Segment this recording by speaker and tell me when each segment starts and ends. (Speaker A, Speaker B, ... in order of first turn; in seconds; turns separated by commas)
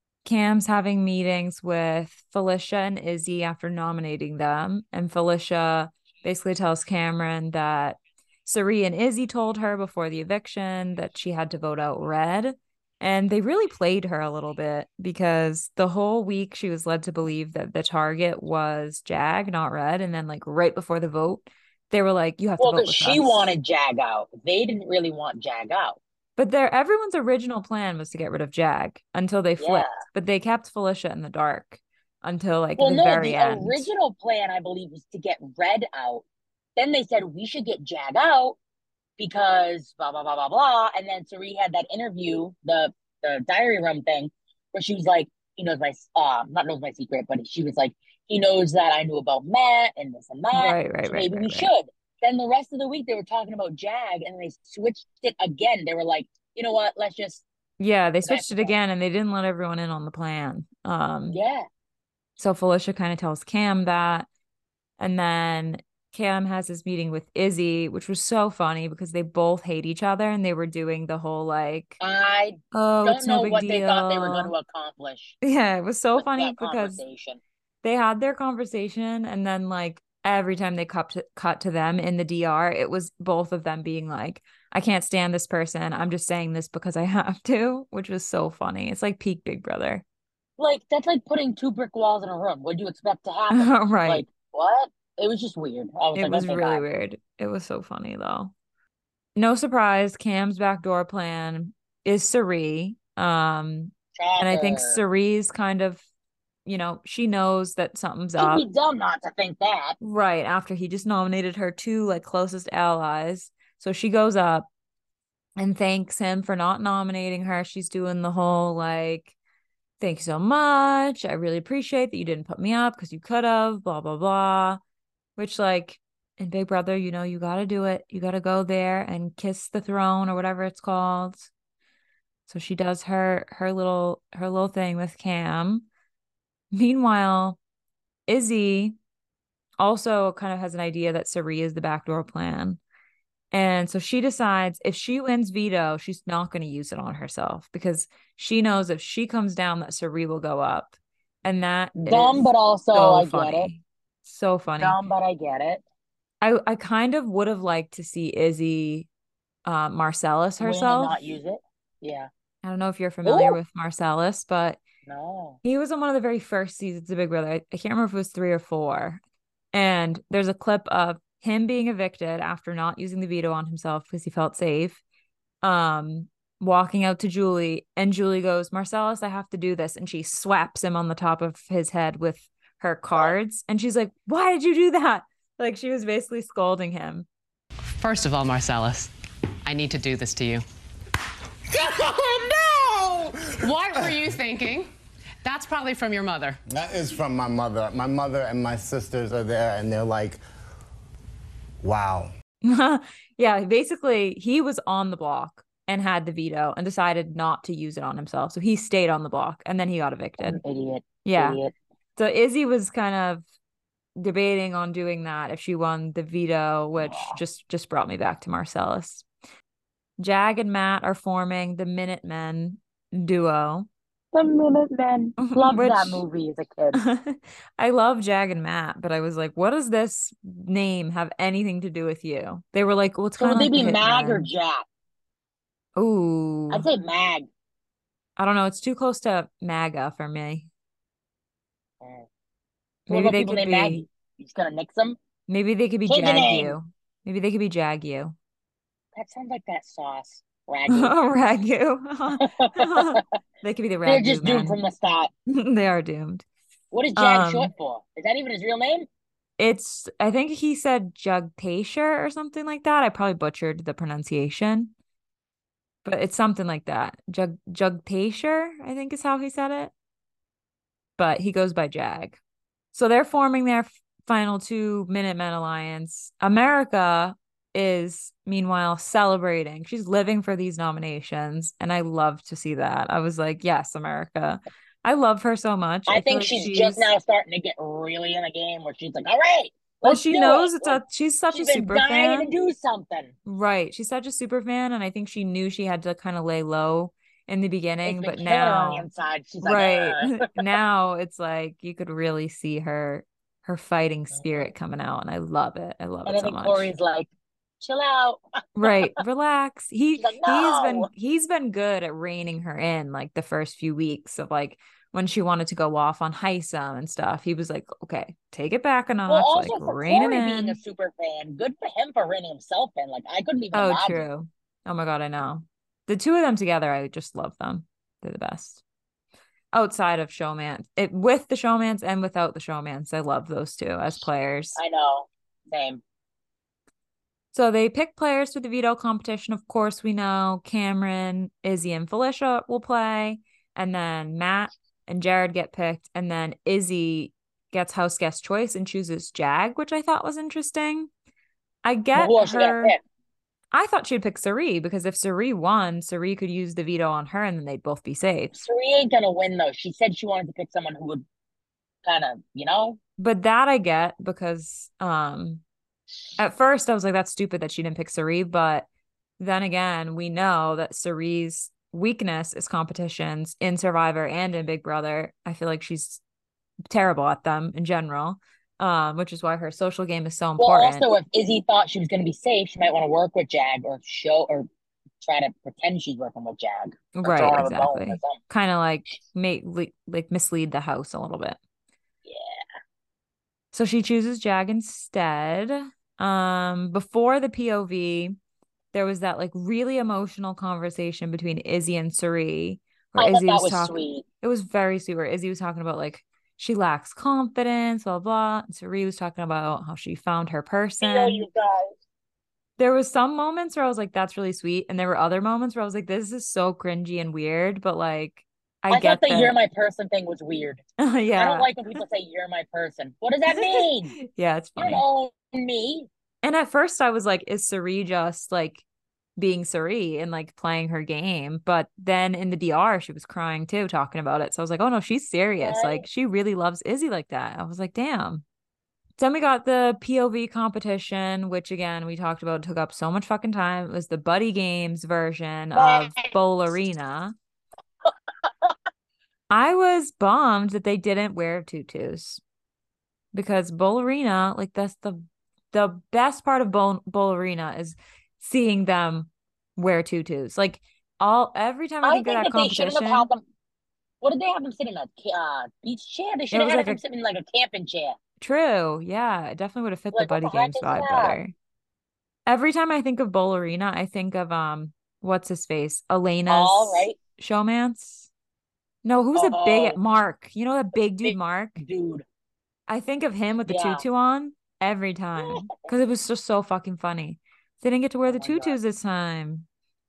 Speaker A: 0.2-23.5, Speaker B: 22.6-26.0, Speaker A: 26.4-33.9, Speaker B: 29.6-30.0, Speaker B: 32.8-36.2, Speaker B: 36.8-38.6, Speaker B: 39.2-57.4, Speaker A: 50.5-51.7, Speaker A: 57.8-61.4, Speaker B: 58.2-58.7, Speaker B: 61.3-61.7, Speaker A: 62.4-64.3, Speaker A: 65.0-72.0, Speaker B: 72.0-75.4, Speaker A: 72.7-74.5, Speaker A: 75.4-77.0, Speaker B: 76.2-77.4, Speaker A: 77.8-90.0, Speaker B: 90.6-96.8, Speaker A: 93.5-94.2, Speaker A: 96.1-98.5, Speaker A: 99.4-106.0, Speaker B: 104.2-105.0, Speaker A: 106.7-108.7, Speaker B: 108.4-110.0, Speaker A: 110.0-114.7, Speaker A: 115.6-119.3, Speaker A: 120.0-124.8, Speaker A: 125.4-131.5, Speaker A: 132.5-135.9, Speaker A: 136.7-137.6, Speaker A: 138.3-139.0, Speaker A: 139.8-142.8, Speaker A: 143.5-155.0, Speaker B: 152.0-153.7, Speaker B: 154.8-155.8, Speaker A: 156.4-159.1, Speaker A: 159.7-161.3, Speaker B: 160.6-162.3, Speaker A: 162.6-164.8, Speaker B: 163.2-163.6, Speaker B: 165.1-165.6, Speaker A: 165.6-169.2, Speaker A: 169.7-175.0, Speaker A: 175.6-187.3, Speaker C: 187.9-189.1, Speaker C: 189.7-190.7, Speaker D: 191.7-193.4, Speaker C: 193.6-194.9, Speaker D: 194.0-194.2, Speaker C: 195.4-196.6, Speaker D: 196.7-200.4, Speaker D: 201.8-202.3, Speaker A: 202.6-210.6, Speaker B: 210.4-211.7, Speaker A: 211.2-211.6, Speaker A: 212.2-213.4, Speaker A: 214.2-219.2, Speaker B: 217.0-217.4, Speaker A: 220.2-223.9, Speaker B: 224.3-227.0, Speaker A: 225.4-226.2, Speaker A: 226.9-234.5, Speaker B: 233.4-234.8, Speaker A: 236.0-236.9, Speaker B: 236.7-237.5, Speaker A: 238.4-240.7, Speaker B: 242.0-242.3, Speaker A: 243.1-244.0, Speaker B: 243.1-245.2, Speaker A: 245.5-248.3, Speaker B: 246.1-246.8, Speaker B: 249.2-251.2, Speaker A: 250.9-254.8, Speaker B: 252.4-253.2, Speaker B: 254.1-255.3, Speaker A: 255.5-256.4, Speaker B: 256.9-259.1, Speaker A: 257.2-257.7, Speaker A: 259.6-264.9, Speaker A: 266.0-269.9, Speaker A: 271.2-272.4, Speaker A: 272.9-287.1, Speaker B: 286.1-293.3, Speaker A: 290.1-292.5, Speaker A: 293.5-299.1, Speaker B: 298.1-300.6, Speaker A: 299.6-306.9, Speaker B: 306.3-307.3, Speaker B: 307.8-309.1, Speaker A: 308.8-320.8, Speaker B: 310.2-311.1, Speaker B: 319.3-324.2, Speaker A: 323.7-328.8, Speaker A: 329.7-334.8, Speaker B: 334.8-336.0, Speaker A: 337.5-351.1, Speaker A: 351.8-352.9, Speaker B: 352.1-353.0, Speaker A: 353.7-358.6, Speaker B: 358.5-361.2, Speaker B: 362.1-363.0, Speaker A: 363.2-365.6, Speaker A: 366.4-368.9, Speaker A: 369.4-376.2, Speaker A: 376.9-381.1, Speaker B: 380.6-384.7, Speaker B: 385.2-388.4, Speaker A: 387.1-391.6, Speaker B: 392.2-392.6, Speaker A: 393.7-398.4, Speaker A: 398.9-411.5, Speaker B: 403.2-404.2, Speaker B: 411.0-412.0, Speaker A: 412.8-419.6, Speaker B: 418.9-420.8, Speaker A: 421.0-421.7, Speaker B: 421.4-424.2, Speaker A: 423.5-425.0, Speaker B: 424.8-426.1, Speaker A: 426.4-428.8, Speaker A: 429.4-438.4, Speaker B: 435.6-436.1, Speaker A: 439.2-447.4, Speaker B: 445.8-446.3, Speaker B: 448.5-448.7, Speaker A: 449.5-452.4, Speaker A: 453.3-463.3, Speaker B: 462.0-463.4, Speaker B: 464.2-468.2, Speaker A: 466.5-467.0, Speaker A: 468.4-471.5, Speaker B: 470.1-471.4, Speaker A: 472.5-478.3, Speaker B: 476.5-477.2, Speaker A: 479.0-481.8, Speaker B: 479.4-480.0, Speaker B: 481.2-482.2, Speaker A: 482.9-489.7, Speaker B: 483.6-484.1, Speaker B: 485.4-485.7, Speaker B: 488.3-488.8